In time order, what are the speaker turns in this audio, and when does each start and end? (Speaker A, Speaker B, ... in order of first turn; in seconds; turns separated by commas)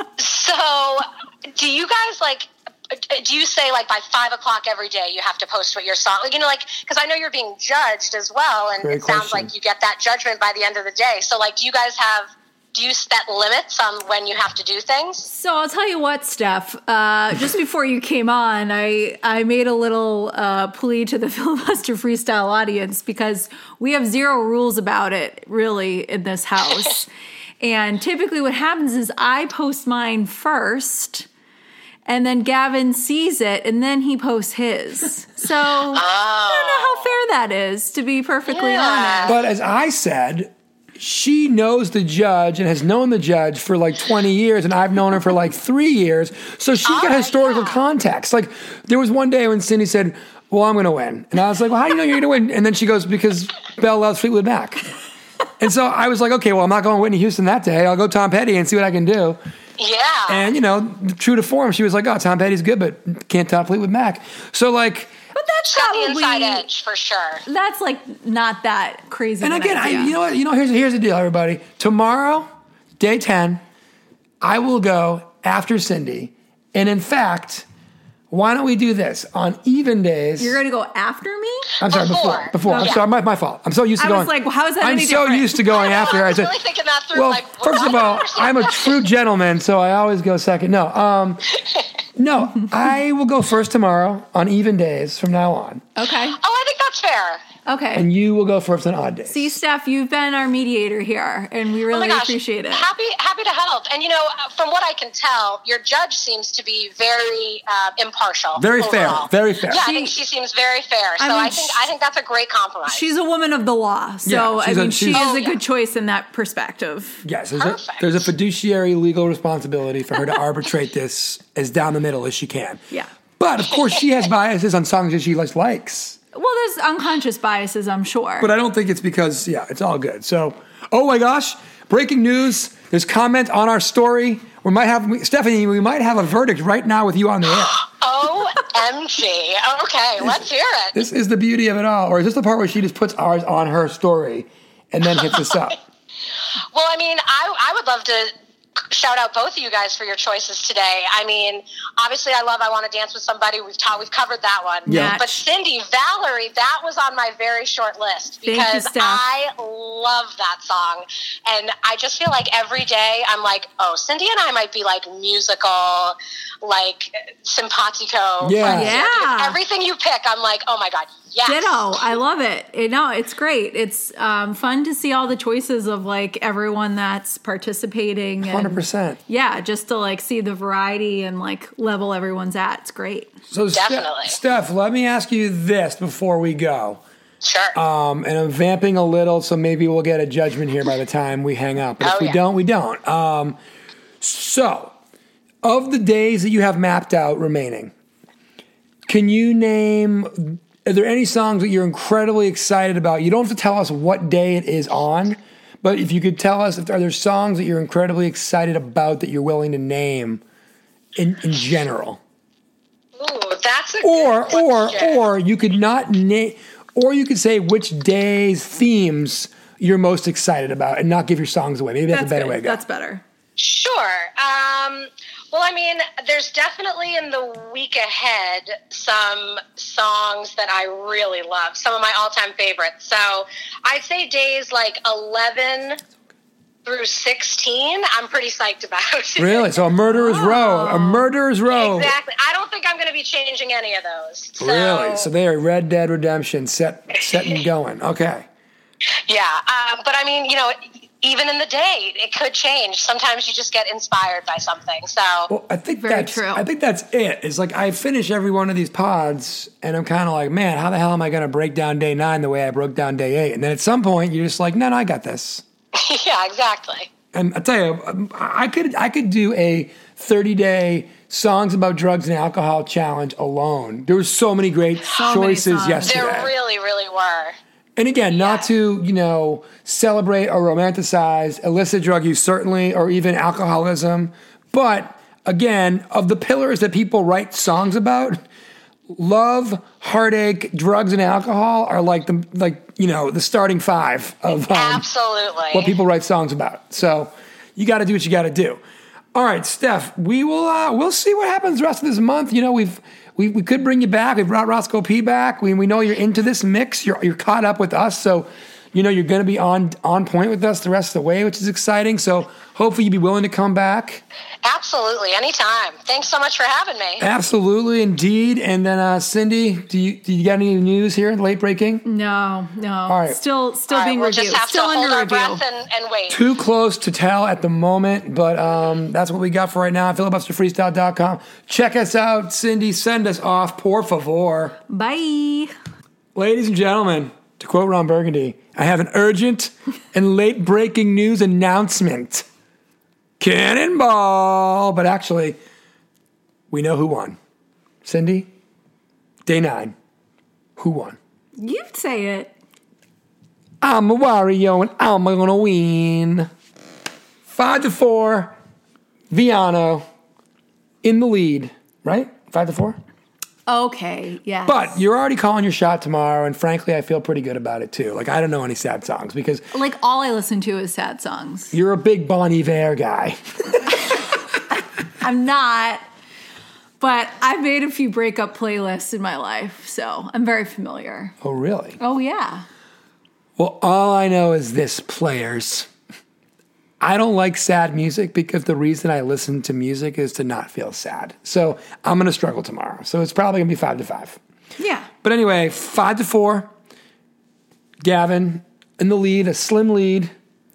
Speaker A: 0.2-15.3, Speaker B: 8.8-9.5, Speaker C: 15.2-27.1, Speaker C: 27.6-31.3, Speaker C: 32.0-39.3, Speaker A: 35.9-37.1, Speaker A: 38.5-39.4, Speaker B: 39.3-54.9, Speaker A: 46.8-47.8, Speaker B: 55.6-59.4, Speaker A: 59.8-60.5, Speaker B: 60.3-65.1, Speaker C: 65.3-66.6, Speaker A: 65.7-67.4, Speaker C: 67.4-70.2, Speaker B: 69.4-72.5, Speaker B: 73.0-73.6, Speaker B: 74.4-77.6, Speaker B: 78.3-80.6, Speaker C: 80.4-81.7, Speaker B: 81.8-86.5, Speaker A: 81.8-83.0, Speaker C: 82.7-83.0, Speaker C: 84.0-85.6, Speaker A: 85.7-89.0, Speaker B: 87.1-91.5, Speaker B: 92.2-95.8, Speaker C: 96.0-96.4, Speaker A: 96.4-97.4, Speaker C: 97.7-98.1, Speaker B: 97.9-99.5, Speaker C: 99.3-102.9, Speaker A: 101.9-113.1, Speaker B: 108.6-109.8, Speaker C: 109.7-110.1, Speaker C: 111.2-111.9, Speaker C: 112.9-117.2, Speaker B: 114.2-115.2, Speaker A: 115.1-115.6, Speaker B: 117.2-122.8, Speaker A: 117.6-118.2, Speaker B: 123.4-126.2, Speaker C: 126.3-128.5, Speaker B: 128.4-137.8, Speaker A: 137.6-141.0, Speaker B: 140.9-145.8, Speaker A: 146.7-172.0, Speaker C: 154.9-155.4, Speaker B: 154.9-155.2, Speaker C: 158.4-159.2, Speaker B: 168.4-168.9, Speaker C: 168.6-169.6, Speaker C: 171.4-183.3, Speaker B: 178.4-179.2, Speaker B: 183.5-187.0, Speaker A: 183.7-184.3, Speaker A: 187.4-187.8, Speaker B: 187.7-193.6, Speaker A: 192.0-192.4, Speaker B: 194.2-194.9, Speaker B: 195.6-197.9, Speaker B: 199.1-210.4, Speaker B: 211.2-212.2, Speaker A: 213.2-215.3, Speaker B: 214.0-222.8, Speaker C: 222.1-223.2, Speaker A: 223.6-236.0, Speaker A: 236.8-239.8, Speaker B: 239.4-242.1, Speaker C: 240.1-241.2, Speaker A: 241.7-245.3, Speaker B: 244.6-248.5, Speaker A: 249.3-255.5, Speaker B: 255.5-265.6, Speaker C: 255.9-256.6, Speaker A: 265.9-267.1, Speaker B: 267.3-276.5, Speaker C: 275.1-276.3, Speaker A: 276.0-277.6, Speaker B: 277.9-288.4, Speaker A: 278.3-278.7, Speaker B: 289.1-295.0, Speaker A: 294.7-295.9, Speaker B: 295.7-298.8, Speaker B: 299.3-314.2, Speaker A: 314.6-317.2, Speaker B: 317.2-322.0, Speaker C: 322.0-325.6, Speaker B: 323.1-323.4, Speaker A: 323.9-326.4, Speaker B: 326.3-334.8, Speaker C: 334.9-335.7, Speaker B: 336.3-342.4, Speaker B: 343.4-345.6, Speaker B: 346.7-347.4, Speaker B: 348.0-348.5, Speaker B: 349.4-349.9, Speaker B: 350.8-351.2, Speaker C: 351.6-352.5, Speaker B: 353.8-356.5, Speaker B: 357.5-358.5, Speaker B: 359.3-360.0, Speaker B: 361.0-363.0, Speaker C: 363.7-364.9, Speaker B: 364.6-369.6, Speaker C: 369.7-371.8, Speaker B: 371.7-373.9, Speaker C: 375.2-376.0, Speaker C: 377.0-381.3, Speaker B: 381.4-382.0, Speaker C: 382.0-382.6, Speaker B: 383.6-385.9, Speaker B: 387.0-394.4, Speaker C: 394.8-395.1, Speaker B: 395.2-396.7, Speaker B: 398.0-400.3